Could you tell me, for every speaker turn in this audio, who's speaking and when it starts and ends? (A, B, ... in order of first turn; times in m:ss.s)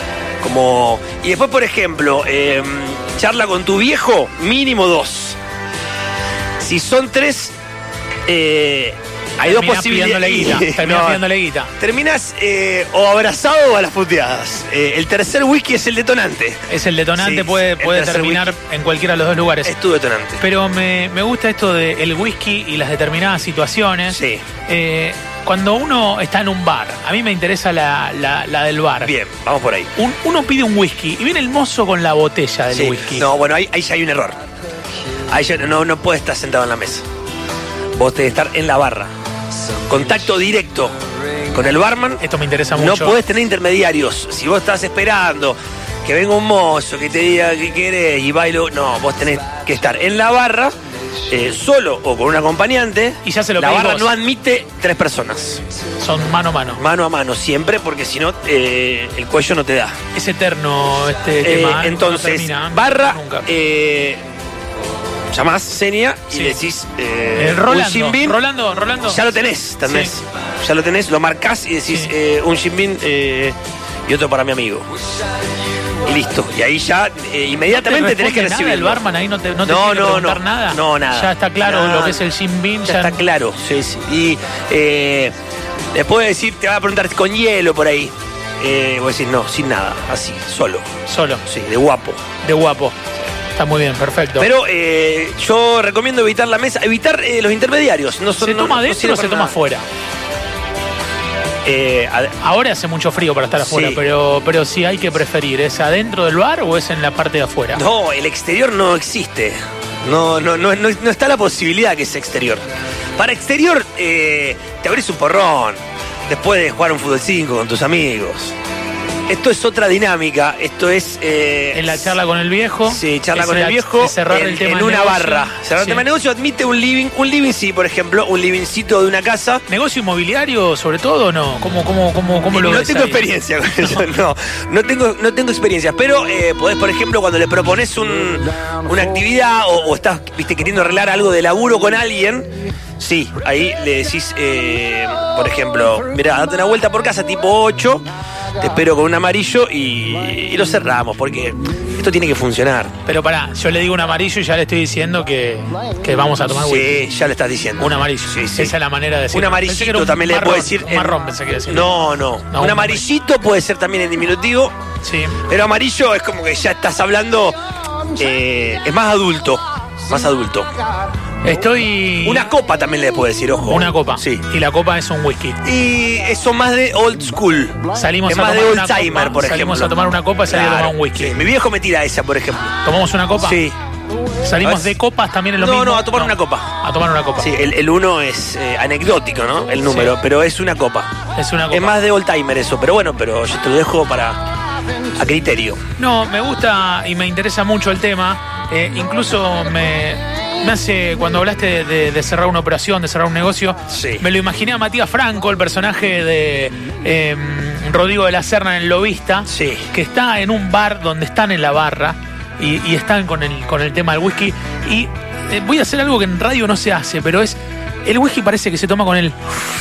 0:00.4-0:05.4 A
0:06.6-0:07.5 A
0:08.3-0:11.2 A
0:09.4-0:11.7 B
0:11.8-0:16.6 A
0:16.7-0:19.7 B
0:17.1-0:18.6 A
0:19.6-0:20.4 A
0:20.4-0:29.1 B
0:24.1-0:24.4 A
0:29.0-0:29.9 A
0:30.0-0:33.3 B
0:32.7-0:34.4 A
0:35.3-0:37.0 A
0:38.0-0:39.1 A
0:39.9-0:40.9 A
0:41.5-0:42.2 A
0:42.2-0:43.2 B
0:42.7-0:50.7 A
0:51.3-0:55.6 A
0:53.2-0:54.1 B
0:56.0-0:56.8 B
0:56.7-0:59.9 A
1:00.1-1:03.5 B
1:01.4-1:04.2 A
1:05.3-1:08.4 A
1:06.3-1:06.6 B
1:07.3-1:10.2 B
1:09.0-1:13.6 A
1:11.9-1:12.1 B
1:14.1-1:14.8 A
1:16.0-1:19.0 A
1:17.7-1:23.2 B
1:19.6-1:22.2 A
1:22.8-1:25.3 A
1:25.9-1:30.9 A
1:31.1-1:31.4 B
1:31.4-1:32.2 A
1:32.4-1:33.0 B
1:33.5-1:34.5 B
1:34.4-1:39.6 A
1:38.4-1:39.8 B
1:41.6-1:42.4 A
1:42.4-1:47.8 B
1:43.6-1:44.0 A
1:47.7-1:52.6 A
1:53.2-1:58.5 A
1:59.3-2:02.2 A
2:01.7-2:06.0 B
2:02.8-2:09.6 A
2:09.7-2:13.2 B
2:12.5-2:28.0 A
2:13.8-2:14.1 B
2:28.6-2:32.9 A
2:33.0-2:37.0 B
2:36.5-2:38.7 A
2:37.8-2:41.9 B
2:39.3-2:41.2 A
2:41.7-2:44.7 A
2:42.5-2:43.0 B
2:45.0-2:45.4 B
2:45.5-2:47.6 A
2:48.2-2:50.7 A
2:51.4-2:52.5 B
2:52.2-2:54.4 A
2:53.6-2:55.6 B
2:55.6-3:02.7 A
2:57.9-3:01.4 B
3:02.8-3:03.6 B
3:03.4-3:03.7 A
3:04.4-3:07.5 B
3:04.6-3:05.0 A
3:05.6-3:06.8 A
3:07.4-3:11.1 A
3:09.8-3:10.1 B
3:11.3-3:11.9 B
3:11.7-3:14.4 A
3:15.2-3:15.8 A
3:16.0-3:39.5 B
3:23.9-3:24.2 A
3:29.5-3:29.9 A